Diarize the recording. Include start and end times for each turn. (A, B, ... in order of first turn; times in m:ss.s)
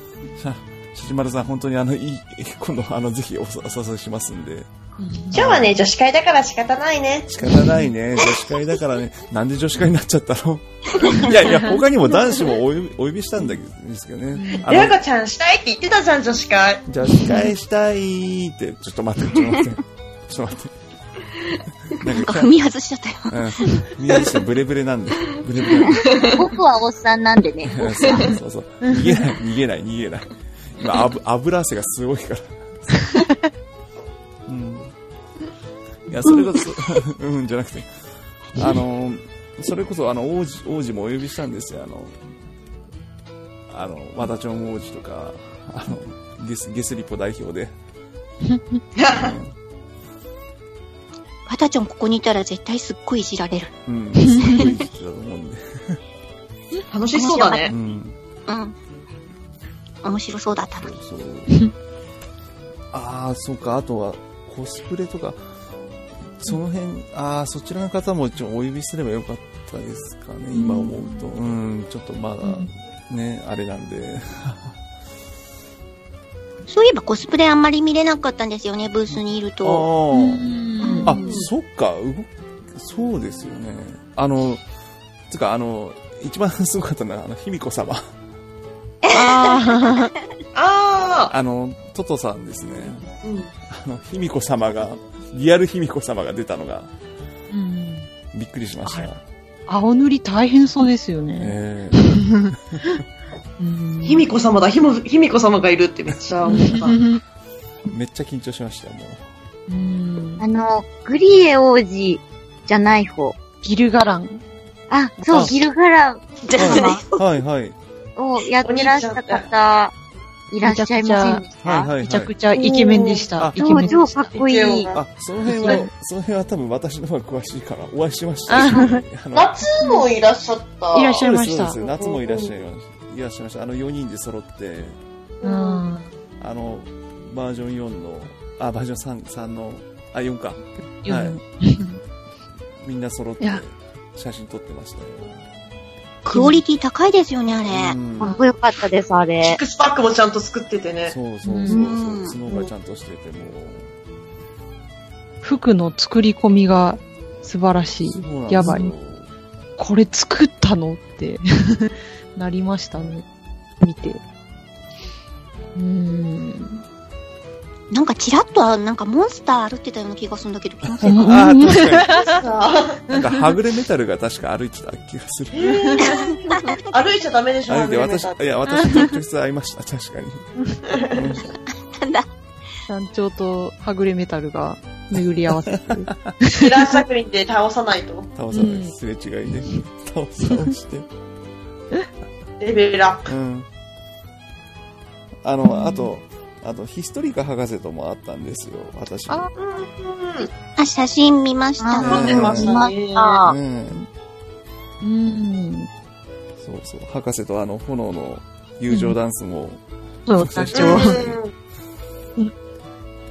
0:00.4-0:04.7 A
0:05.0-0:05.4 B
0:05.3-0:05.7 A
0:05.3-0:07.3 C
0:07.3-0:15.0 A
0:14.3-0:14.6 B
0:14.6-0:16.8 C
0:16.9-0:20.8 A
0:21.9-0:22.5 A
0:22.1-0:23.5 D
0:23.3-0:26.2 A
0:25.9-0:26.4 C
0:26.3-0:28.2 E
0:27.6-0:32.8 A
0:34.5-0:34.9 A
0:36.1-0:37.9 A
0:38.5-0:42.1 A
0:43.7-0:47.7 A
0:48.5-0:48.8 B
0:49.0-0:49.3 C
0:49.1-0:49.5 A
0:51.5-0:53.7 D
0:53.9-0:56.0 A
0:54.2-0:54.6 B
0:56.9-0:57.7 C
0:57.1-0:57.7 D
0:57.7-0:58.2 A
0:58.5-0:58.7 D
1:00.0-1:00.9 D
1:00.8-1:01.5 A
1:02.9-1:05.4 A
1:06.4-1:14.8 A
1:10.5-1:10.9 B
1:12.4-1:12.7 B
1:16.7-1:19.9 D
1:19.1-1:20.5 A
1:20.1-1:21.1 B
1:20.8-1:21.3 D
1:21.0-1:24.6 A
1:21.1-1:21.5 C
1:25.3-1:28.0 A
1:29.0-1:30.2 D
1:29.1-1:30.1 B
1:30.5-1:31.3 C
1:31.3-1:33.0 A
1:33.2-1:33.5 C
1:33.7-1:36.9 A
1:37.5-1:38.1 B
1:38.3-1:39.2 A
1:38.8-1:39.1 B
1:39.7-1:43.0 B
1:41.4-1:43.0 A
1:43.6-1:44.3 B
1:44.0-1:47.0 C
1:46.5-1:47.2 B
1:47.9-1:49.2 A
1:49.7-1:50.4 B
1:50.4-1:53.4 E
1:53.6-1:54.4 B
1:54.9-1:57.0 E
1:55.3-1:55.6 A
1:56.5-1:57.2 D
1:56.6-1:57.8 A
1:58.2-1:59.9 E
1:58.6-1:59.4 C
2:00.5-2:01.9 E
2:00.6-2:01.4 B
2:01.6-2:02.3 A
2:02.0-2:04.4 B
2:02.5-2:03.3 C
2:03.4-2:03.9 A
2:03.6-2:04.9 E
2:04.3-2:05.0 C
2:04.9-2:09.6 A
2:05.5-2:05.9 B
2:08.5-2:09.0 B
2:09.3-2:12.5 C
2:09.8-2:10.0 B
2:10.9-2:11.8 B
2:11.2-2:15.0 A
2:15.4-2:15.8 C
2:15.4-2:16.1 B
2:16.4-2:21.4 A
2:21.0-2:22.0 B
2:22.8-2:25.4 A
2:26.2-2:28.0 D
2:26.3-2:26.6 B
2:27.7-2:28.4 A
2:28.2-2:29.6 E
2:29.4-2:31.1 C
2:31.0-2:33.9 A
2:31.4-2:31.8 B
2:31.7-2:32.4 D
2:35.4-2:38.9 B
2:38.0-2:39.3 A
2:39.8-2:43.2 B
2:43.8-2:44.2 B
2:45.8-2:46.8 B
2:47.9-2:51.4 D
2:51.0-2:52.4 B
2:51.1-2:52.2 A
2:52.1-2:53.0 C
2:53.1-2:55.7 A
2:53.1-2:53.4 B
2:55.5-2:58.4 C
2:55.7-2:56.1 B
2:56.0-2:56.9 D
2:57.7-3:00.5 A
2:58.7-2:59.1 B
3:00.9-3:01.2 C
3:01.1-3:01.5 A
3:01.7-3:02.3 D
3:02.9-3:07.0 B
3:05.2-3:06.3 A
3:06.5-3:08.3 C
3:08.3-3:11.1 A
3:08.5-3:08.9 B
3:12.6-3:13.3 C
3:13.3-3:13.7 A
3:15.4-3:19.5 A
3:15.7-3:16.1 B
3:19.6-3:20.5 C
3:20.8-3:22.4 D
3:21.8-3:23.5 E
3:22.0-3:22.8 A
3:22.0-3:23.4 C
3:23.4-3:24.0 A
3:25.0-3:25.9 B
3:26.6-3:29.8 A
3:28.9-3:29.2 B
3:30.3-3:31.2 B
3:30.4-3:31.4 A
3:30.7-3:31.5 C